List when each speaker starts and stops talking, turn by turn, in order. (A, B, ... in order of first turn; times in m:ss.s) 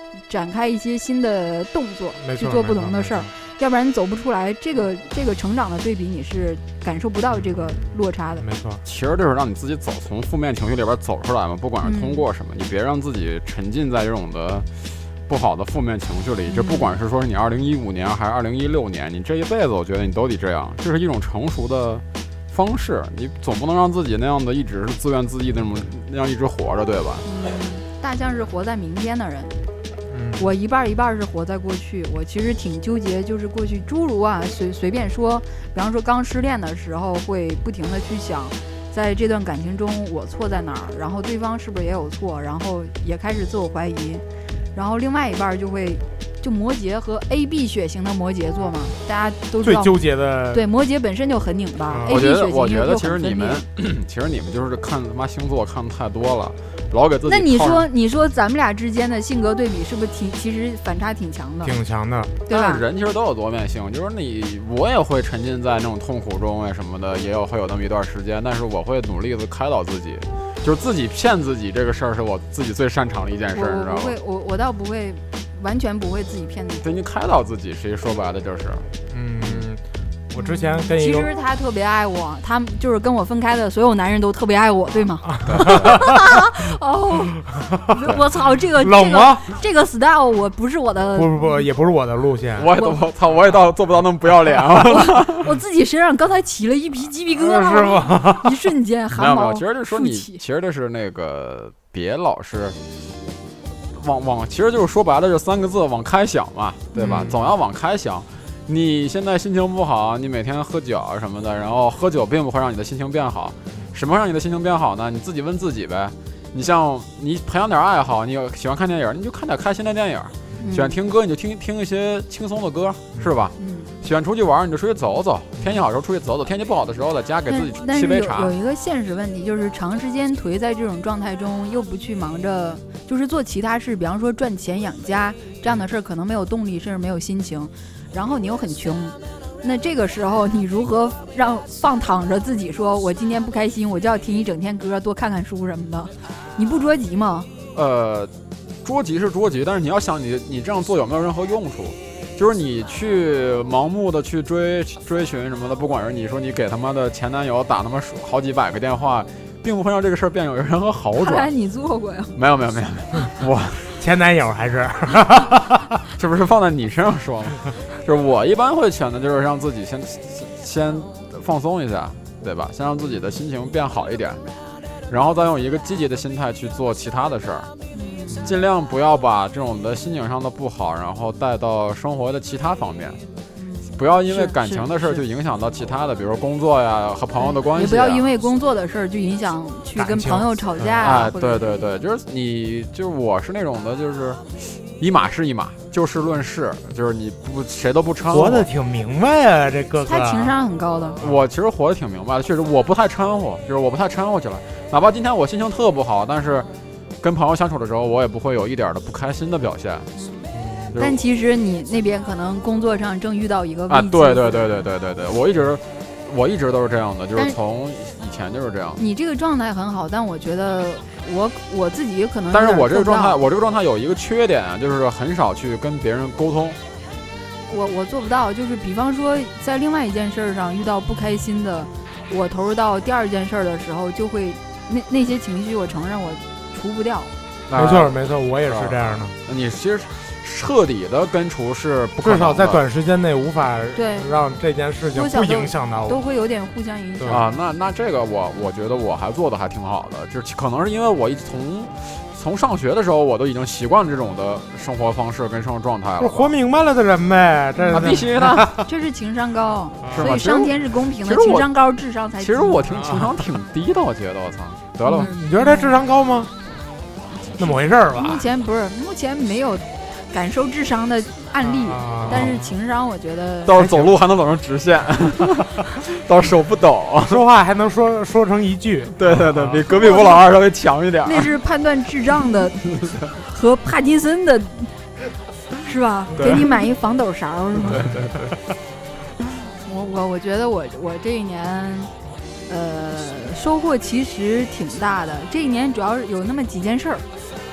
0:00.3-0:08.4 A
0:02.2-0:03.3 B
0:07.3-0:08.8 B
0:08.8-0:27.3 C
0:11.8-0:12.2 A
0:16.5-0:16.9 A
0:27.2-0:29.6 A
0:30.1-0:30.4 B
0:30.4-0:50.0 A
0:49.6-0:50.6 B
0:50.5-0:53.6 A
0:51.9-0:52.2 B
0:52.1-0:57.9 C
0:57.2-1:01.8 A
1:01.6-1:02.4 B
1:02.5-1:02.8 A
1:02.5-1:14.2 C
1:13.5-1:16.9 A
1:16.8-1:19.6 C
1:19.1-1:21.3 B
1:20.4-1:31.6 A
1:25.2-1:26.2 B
1:25.5-1:25.8 C
1:27.4-1:28.2 B
1:28.8-1:29.5 B
1:31.1-1:32.7 B
1:32.6-1:35.5 C
1:32.7-1:33.0 A
1:34.9-1:40.4 A
1:37.3-1:38.6 B
1:39.1-1:42.8 C
1:43.9-2:08.5 C
1:46.9-1:47.3 A
1:47.0-1:47.5 B
2:00.6-2:01.0 A
2:03.6-2:03.9 A
2:07.5-2:27.5 A
2:27.7-2:28.3 C
2:28.8-2:41.5 C
2:41.2-2:42.4 A
2:42.4-2:44.0 C
2:43.9-2:46.1 B
2:46.2-2:54.4 C
2:55.1-2:57.7 C
2:57.9-2:58.5 A
2:58.3-3:03.2 C
3:03.6-3:05.2 A
3:04.0-3:08.2 C
3:07.4-3:11.7 A
3:10.0-3:11.1 B
3:11.0-3:18.7 C
3:18.3-3:20.5 B
3:20.1-3:21.2 A
3:21.2-3:26.7 C
3:21.2-3:21.5 B
3:27.2-3:30.1 C
3:30.1-3:34.9 A
3:30.5-3:31.0 B
3:30.9-3:31.2 C
3:33.9-3:39.0 C
3:39.0-3:43.4 A
3:42.5-3:46.8 C
3:47.7-3:57.3 A
3:57.7-4:02.8 C
3:57.7-3:59.4 B
4:02.2-4:06.2 B
4:04.0-4:04.3 A
4:05.1-4:07.5 A
4:07.2-4:07.5 B
4:07.3-4:16.5 C
4:16.2-4:18.9 B
4:17.8-4:22.8 A
4:17.9-4:18.7 C
4:20.0-4:20.5 B
4:20.1-4:21.7 C
4:22.4-4:25.3 C
4:22.9-4:23.4 B
4:25.0-4:26.0 A
4:25.1-4:26.5 B
4:27.6-4:28.4 B
4:27.6-4:33.8 A
4:31.6-4:32.7 B
4:33.6-4:37.4 C
4:33.7-4:34.1 B
4:37.2-4:39.9 B
4:39.1-4:41.5 C
4:39.9-4:40.5 A
4:41.2-4:44.9 A
4:45.8-4:48.1 A
4:46.4-4:46.7 C
4:47.8-4:48.6 C
4:47.9-4:48.4 B
4:49.8-4:52.1 A
4:52.7-4:57.2 A